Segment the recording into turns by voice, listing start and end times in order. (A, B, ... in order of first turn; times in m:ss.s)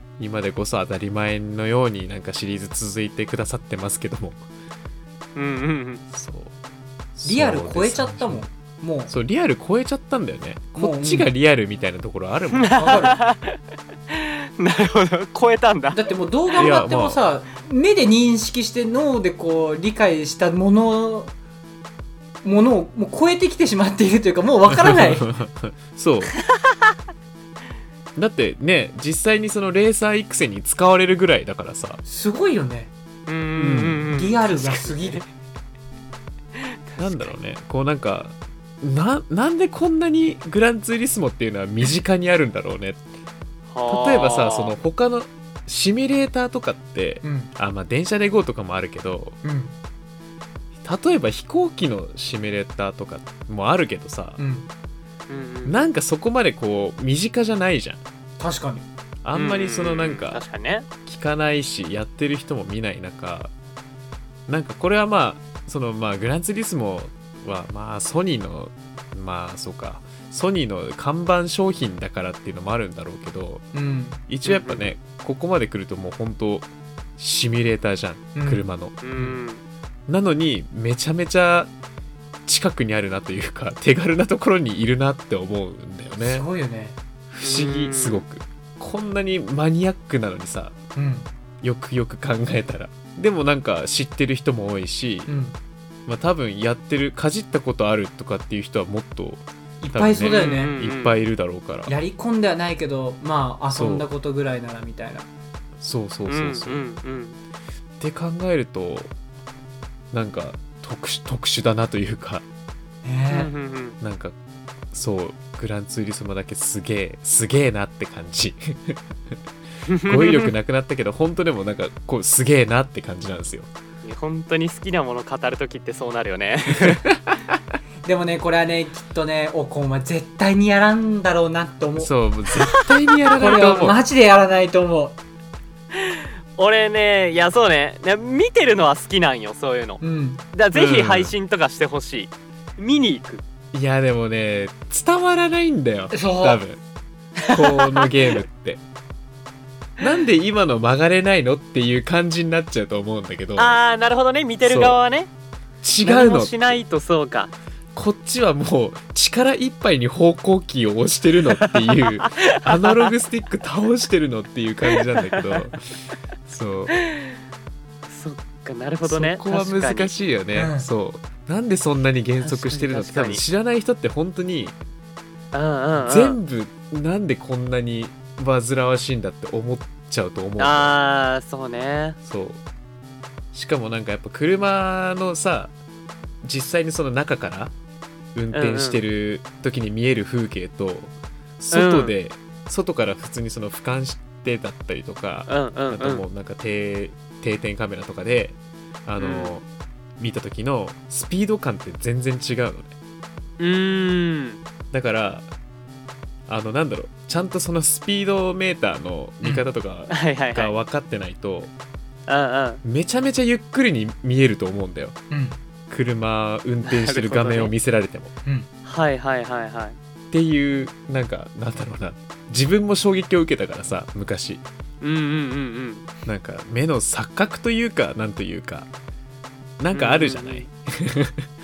0:00.2-0:04.4 A
0:05.4-0:06.0 B
0:06.1-0:06.6 A
0:07.2-0:08.5 A
0:07.2-0:09.1 C
0:09.1-0:13.0 A
0:10.8-0:11.3 C
0:12.6-0:13.6 B
0:12.8-0:13.2 C
0:14.1-0:16.1 B
0:15.9-0:21.3 C
0:16.6-0:17.2 A
0:22.4-0:25.3 C
0:24.7-0:26.4 A
0:28.2-0:32.0 A
0:32.0-0:32.9 C
0:33.3-0:35.2 B
0:33.6-0:34.1 A
0:34.1-0:35.2 C
0:36.9-0:37.3 B
0:37.0-0:43.0 A
0:43.7-0:44.8 B
0:43.9-0:49.4 A
0:47.2-0:47.5 C
0:49.4-0:49.7 C
0:50.8-0:54.4 A
0:54.4-0:54.7 C
0:55.3-0:55.9 B
0:55.7-0:58.0 A
0:58.4-0:58.9 C
0:59.2-1:00.4 A
0:59.3-1:00.9 B
1:01.0-1:03.5 A
1:04.5-1:13.6 A
1:13.7-1:14.2 C
1:14.3-1:19.4 A
1:14.4-1:15.0 B
1:18.4-1:18.6 C
1:19.0-1:19.6 B
1:20.1-1:21.7 A
1:22.5-1:26.5 A
1:26.2-1:27.0 C
1:27.3-1:30.8 A
1:27.4-1:28.2 B
1:31.0-1:31.3 C
1:31.6-1:35.3 A
1:35.3-1:35.6 C
1:36.1-1:41.9 A
1:39.8-1:40.8 C
1:40.2-1:41.2 B
1:41.9-1:45.3 C
1:43.7-1:44.1 A
1:45.8-1:46.8 A
1:46.3-1:47.4 B
1:48.0-1:49.1 A
1:50.1-1:52.4 A
1:53.0-1:53.5 C
1:53.3-1:54.0 B
1:54.0-1:54.4 A
1:54.9-1:59.0 A
1:59.9-2:00.5 B
2:00.0-2:03.7 A
2:04.0-2:07.0 B
2:06.7-2:07.6 A
2:08.0-2:12.1 C
2:12.0-2:14.0 A
2:12.6-2:13.8 B
2:13.4-2:15.2 C
2:16.0-2:20.0 B
2:20.0-2:20.4 C
2:20.5-2:23.4 B
2:20.7-2:21.4 A
2:23.7-2:26.8 A
2:26.1-2:26.6 C
2:27.4-2:28.1 B
2:27.5-2:28.8 A
2:30.0-2:33.8 A
2:33.6-2:35.3 B
2:34.6-2:35.0 A
2:35.8-2:36.8 A
2:36.0-2:37.5 B
2:38.0-2:45.9 A
2:41.6-2:43.1 B
2:44.9-2:45.6 B
2:46.5-2:47.0 A
2:47.0-2:47.4 B
2:48.1-2:50.1 B
2:49.0-2:54.8 A
2:50.5-2:50.9 C
2:52.4-2:53.4 B
2:55.5-2:56.4 B
2:56.0-3:01.0 A
3:00.6-3:02.2 B
3:02.2-3:02.6 A
3:03.5-3:05.7 A
3:06.4-3:07.7 A
3:08.4-3:19.7 A
3:08.5-3:09.0 B
3:11.7-3:12.1 B
3:15.5-3:16.2 B
3:19.2-3:19.6 B
3:20.2-3:22.9 A
3:23.6-3:24.6 B
3:24.9-3:25.5 A
3:26.5-3:31.7 A
3:30.1-3:30.7 B
3:32.3-3:32.8 B
3:32.8-3:35.2 A
3:35.3-3:35.6 C
3:35.9-3:38.3 A
3:36.8-3:37.7 B
3:38.8-3:40.0 B
3:40.3-3:44.6 A
3:45.0-3:46.1 B
3:46.2-3:48.9 A
3:49.8-3:51.5 A
3:49.9-3:50.7 B